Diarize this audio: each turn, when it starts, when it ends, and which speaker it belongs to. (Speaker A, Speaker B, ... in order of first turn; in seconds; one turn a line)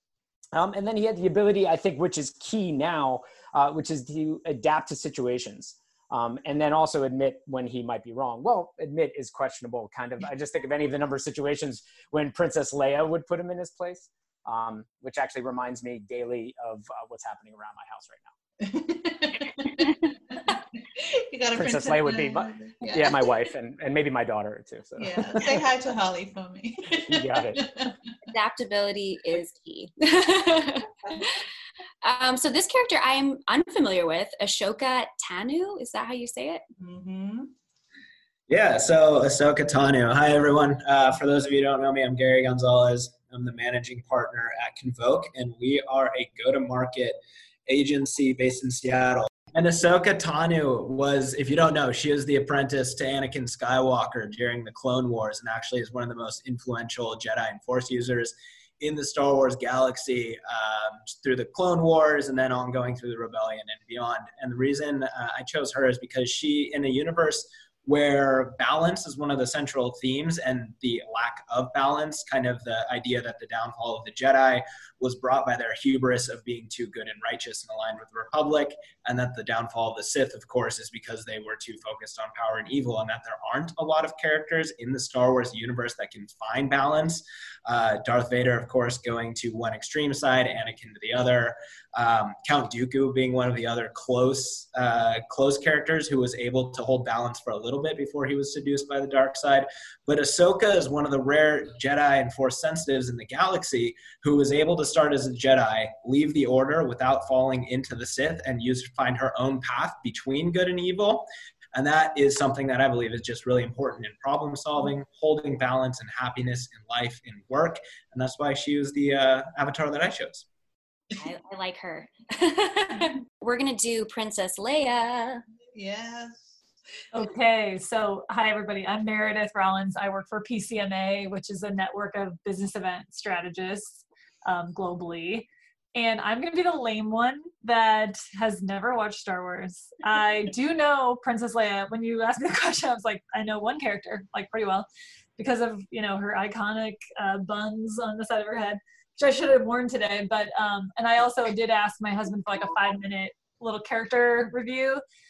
Speaker A: 0.5-18.3
Speaker B: 18.6-19.9
Speaker B: 20.5-23.3
Speaker A: 21.5-25.7
Speaker B: 25.0-27.9
Speaker A: 27.1-27.6
Speaker C: 28.3-31.3
Speaker C: 32.0-36.6
Speaker B: 36.8-37.5
Speaker D: 38.5-120.5
Speaker C: 121.2-125.4
Speaker B: 125.8-126.6
Speaker E: 127.1-155.0